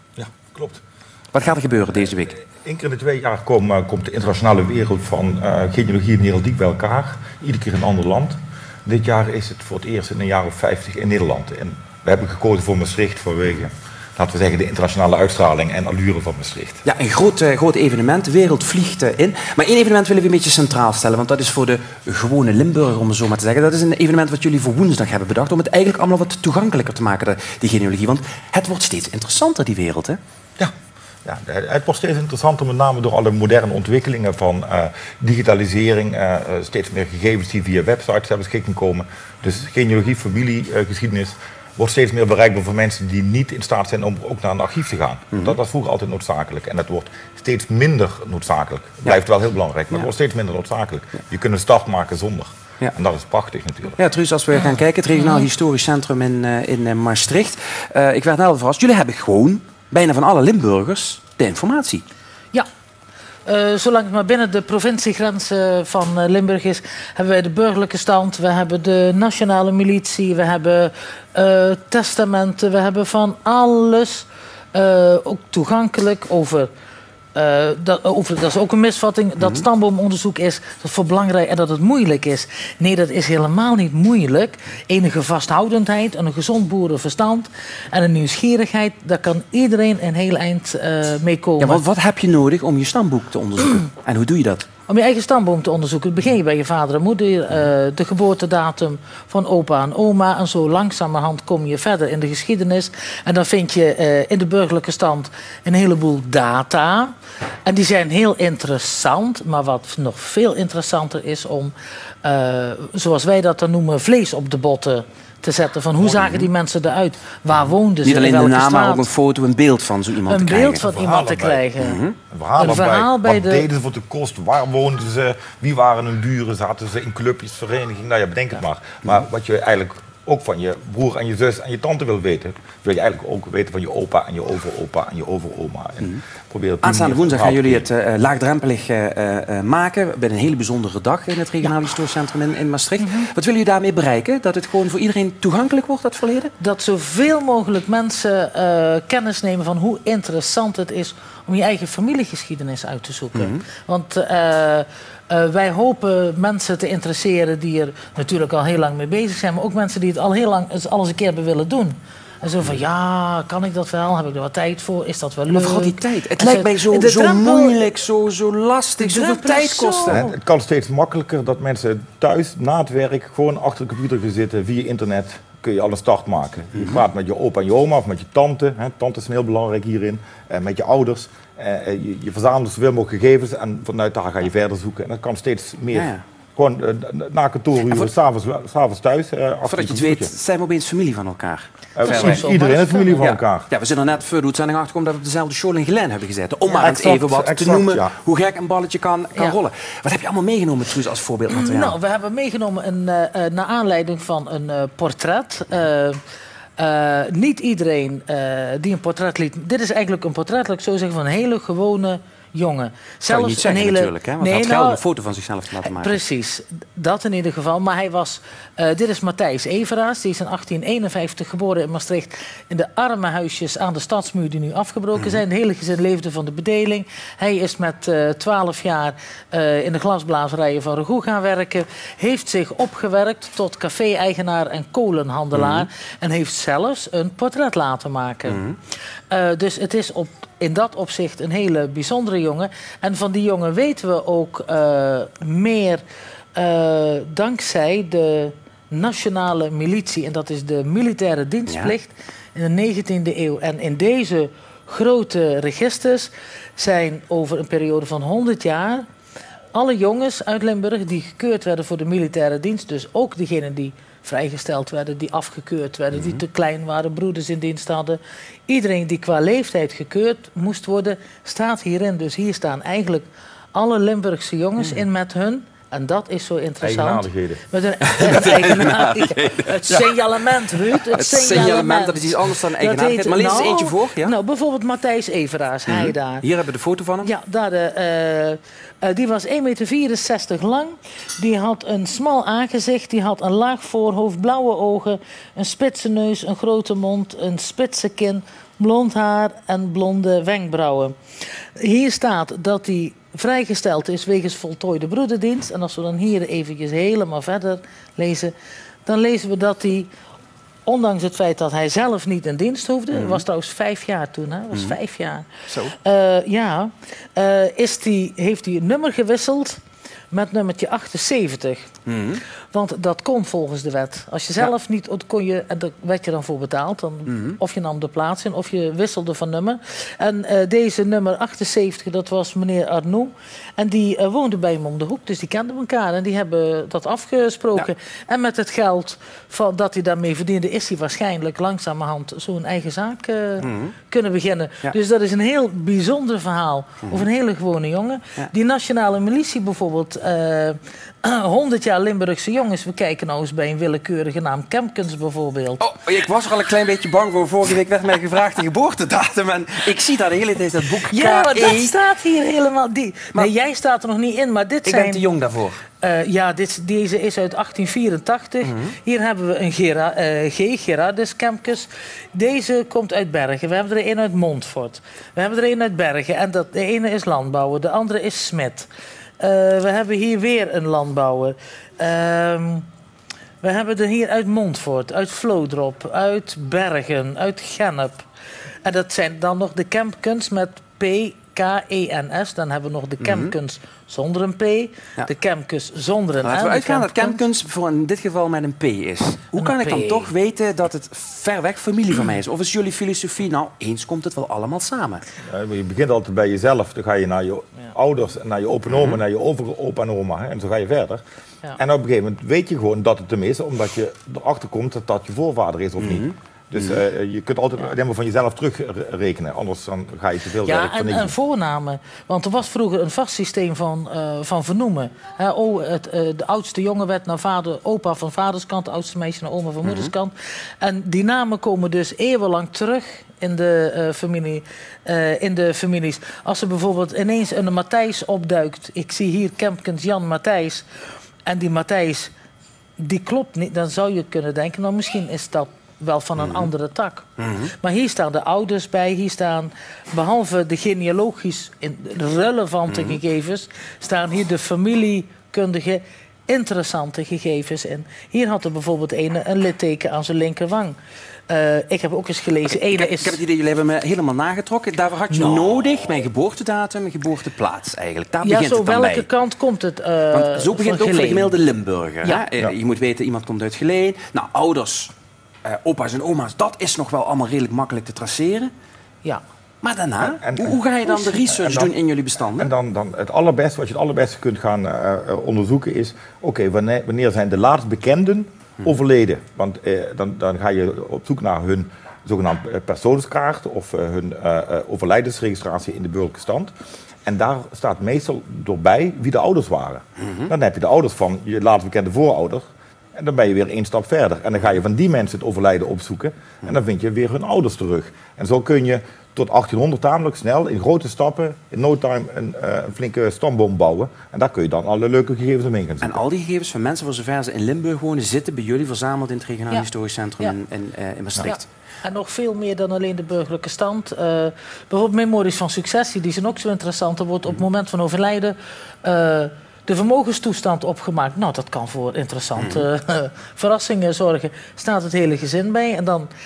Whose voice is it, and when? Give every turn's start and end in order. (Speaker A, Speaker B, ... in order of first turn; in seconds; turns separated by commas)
Speaker A: 0.1-0.8, Speaker B: 1.3-2.4, Speaker A: 2.3-16.8, Speaker B: 16.8-30.2, Speaker A: 31.2-54.0, Speaker B: 53.9-62.0, Speaker C: 55.2-55.5, Speaker C: 63.5-76.7, Speaker C: 77.3-91.8, Speaker B: 91.6-94.6, Speaker C: 94.9-107.1, Speaker C: 107.7-119.1, Speaker A: 116.0-116.4, Speaker B: 118.0-120.9, Speaker C: 120.2-122.0, Speaker A: 120.9-121.6, Speaker B: 121.8-122.2, Speaker A: 122.3-137.9, Speaker C: 122.6-123.6, Speaker B: 136.8-146.5, Speaker C: 143.0-143.3, Speaker C: 146.6-167.9, Speaker B: 153.3-153.6, Speaker B: 165.5-170.2, Speaker C: 169.0-170.3, Speaker A: 170.1-190.3, Speaker B: 176.7-177.0, Speaker B: 185.9-186.2, Speaker B: 189.6-192.5, Speaker A: 191.9-193.7, Speaker C: 192.0-193.3, Speaker B: 193.2-201.9, Speaker A: 196.7-198.1, Speaker C: 201.5-206.2, Speaker C: 206.8-215.0, Speaker B: 213.3-216.2, Speaker C: 215.8-238.6, Speaker B: 235.5-235.9, Speaker B: 238.4-238.8, Speaker C: 239.3-246.0, Speaker C: 246.5-259.0, Speaker B: 251.7-251.9, Speaker C: 259.7-286.4, Speaker B: 266.1-266.4, Speaker A: 276.8-277.6, Speaker B: 278.1-280.1, Speaker B: 281.1-284.3, Speaker B: 285.9-287.3, Speaker C: 287.2-301.1, Speaker C: 301.8-308.5, Speaker C: 309.1-310.1, Speaker C: 310.9-319.8, Speaker B: 313.1-313.4, Speaker B: 315.7-315.9, Speaker C: 320.3-321.9, Speaker B: 322.1-322.4, Speaker C: 322.7-355.8, Speaker B: 327.3-327.6, Speaker B: 343.6-343.9, Speaker B: 355.8-361.9, Speaker C: 361.1-365.2, Speaker B: 364.9-365.8, Speaker C: 366.0-378.9, Speaker B: 368.6-368.9, Speaker C: 379.4-382.9, Speaker C: 383.6-388.2, Speaker C: 388.8-397.4, Speaker B: 393.2-393.5, Speaker B: 396.4-405.2, Speaker C: 399.5-400.3, Speaker A: 405.4-411.2, Speaker B: 408.9-409.2, Speaker A: 411.8-421.3, Speaker B: 416.0-417.0, Speaker C: 420.6-440.8, Speaker B: 429.8-430.1, Speaker C: 441.4-442.3, Speaker C: 443.0-461.0, Speaker B: 446.4-446.7, Speaker B: 447.4-447.7, Speaker B: 452.9-453.2, Speaker C: 461.5-463.4, Speaker B: 462.7-469.3, Speaker C: 468.4-471.5, Speaker B: 470.3-475.1, Speaker B: 475.6-478.7, Speaker B: 479.8-482.7, Speaker A: 480.3-481.9, Speaker A: 482.5-496.7, Speaker A: 497.2-516.2, Speaker B: 516.0-521.6, Speaker C: 521.4-536.3, Speaker B: 532.5-532.8